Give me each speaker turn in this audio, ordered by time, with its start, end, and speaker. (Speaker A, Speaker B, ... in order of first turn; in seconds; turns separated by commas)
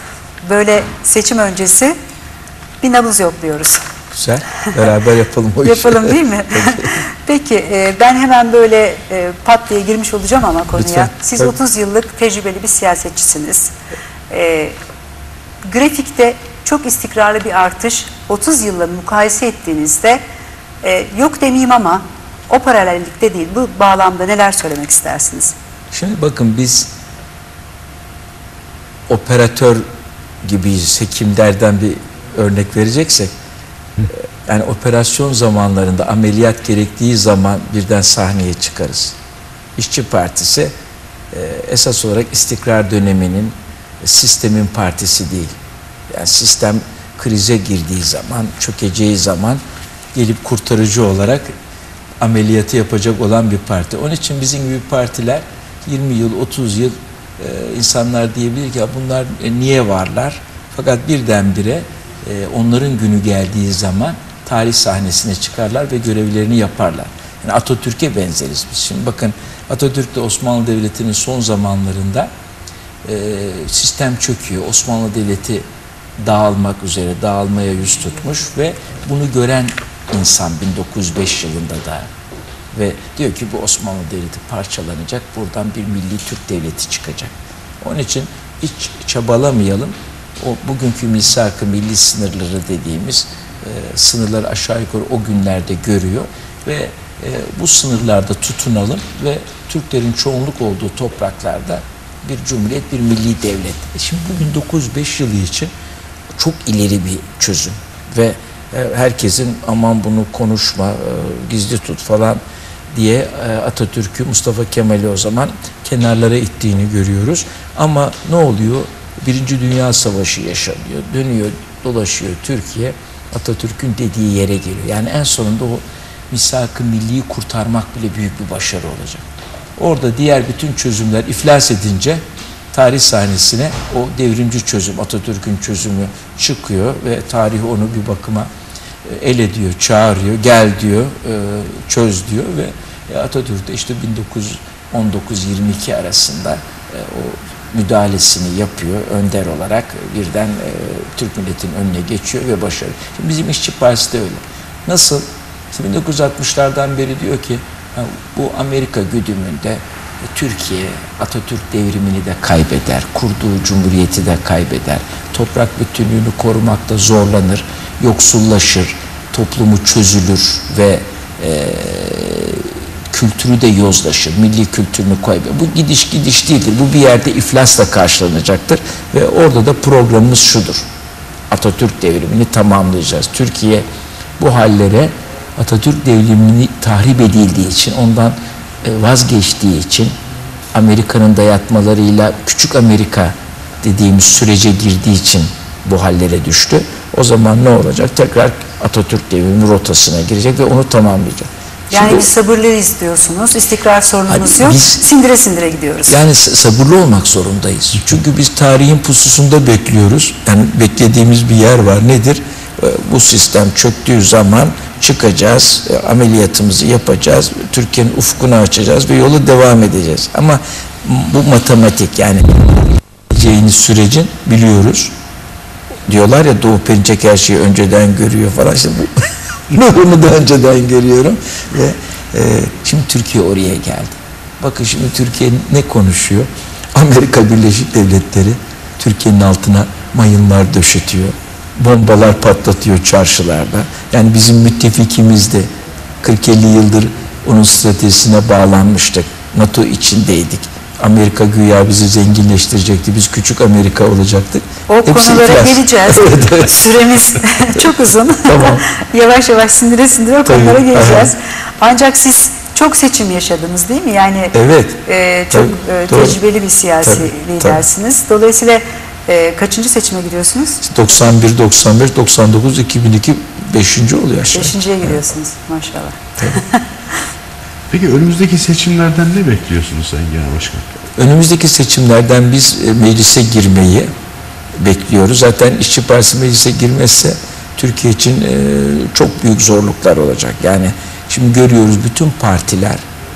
Speaker A: 0.4-1.9, Speaker A: 2.8-3.8, Speaker B: 4.1-6.9, Speaker A: 5.6-13.7, Speaker B: 10.7-11.5, Speaker A: 14.3-14.8, Speaker A: 15.6-20.2, Speaker A: 20.8-25.5, Speaker B: 25.9-26.9, Speaker B: 29.1-29.8, Speaker B: 30.4-33.3, Speaker B: 34.0-39.1, Speaker B: 39.8-40.7, Speaker B: 41.3-45.5, Speaker B: 46.1-49.6, Speaker B: 50.1-51.5, Speaker B: 52.2-72.3, Speaker B: 73.0-75.6, Speaker B: 76.2-82.1, Speaker B: 82.7-105.7, Speaker B: 106.3-129.2, Speaker B: 129.8-138.5, Speaker B: 139.0-180.8, Speaker B: 181.5-183.8, Speaker B: 184.4-190.1, Speaker B: 190.7-202.3, Speaker A: 201.9-206.2, Speaker B: 204.3-205.0, Speaker B: 206.1-225.1, Speaker B: 226.1-245.7, Speaker B: 246.2-256.9, Speaker A: 254.9-270.8, Speaker B: 258.4-258.8, Speaker B: 260.4-261.3, Speaker B: 264.5-266.4, Speaker B: 267.0-267.8, Speaker B: 270.8-275.2, Speaker A: 274.5-276.8, Speaker C: 277.9-280.9, Speaker B: 281.2-284.1, Speaker B: 284.8-293.0